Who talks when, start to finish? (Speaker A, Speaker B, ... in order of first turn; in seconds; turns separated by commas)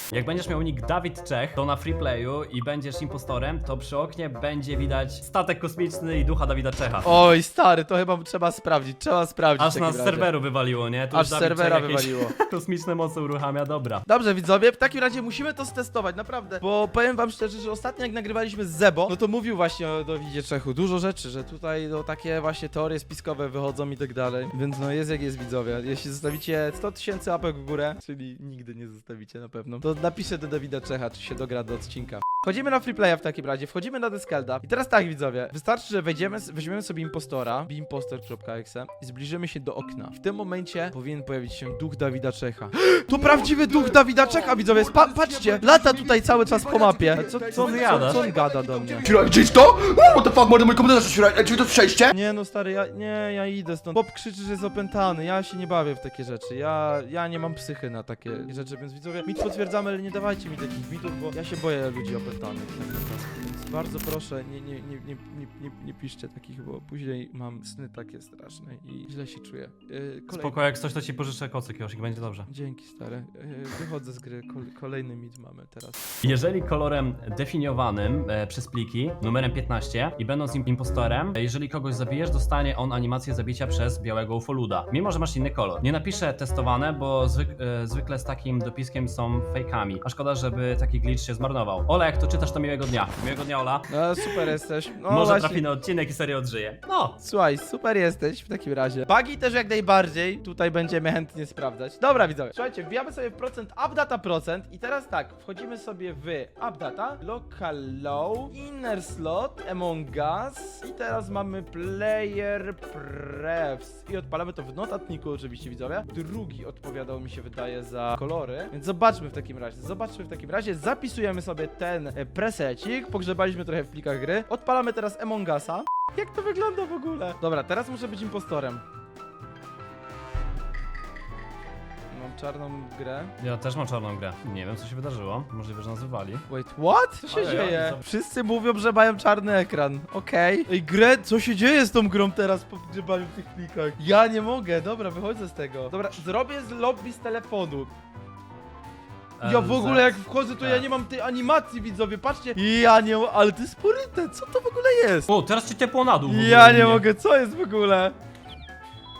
Speaker A: 0.1-7.2, Speaker B: 7.0-10.3, Speaker A: 9.6-14.1, Speaker B: 11.1-12.3, Speaker B: 14.1-49.1, Speaker C: 43.3-52.1, Speaker A: 47.5-48.2, Speaker B: 52.1-70.6, Speaker A: 70.3-72.5, Speaker B: 72.5-76.1, Speaker A: 76.2-94.5, Speaker B: 93.9-95.6, Speaker A: 95.1-97.2, Speaker B: 97.2-128.8, Speaker B: 132.1-133.3, Speaker A: 133.4-136.5, Speaker B: 136.5-147.9, Speaker A: 137.3-138.0, Speaker A: 149.4-150.9, Speaker B: 149.4-155.3, Speaker A: 155.3-157.1, Speaker B: 156.3-158.2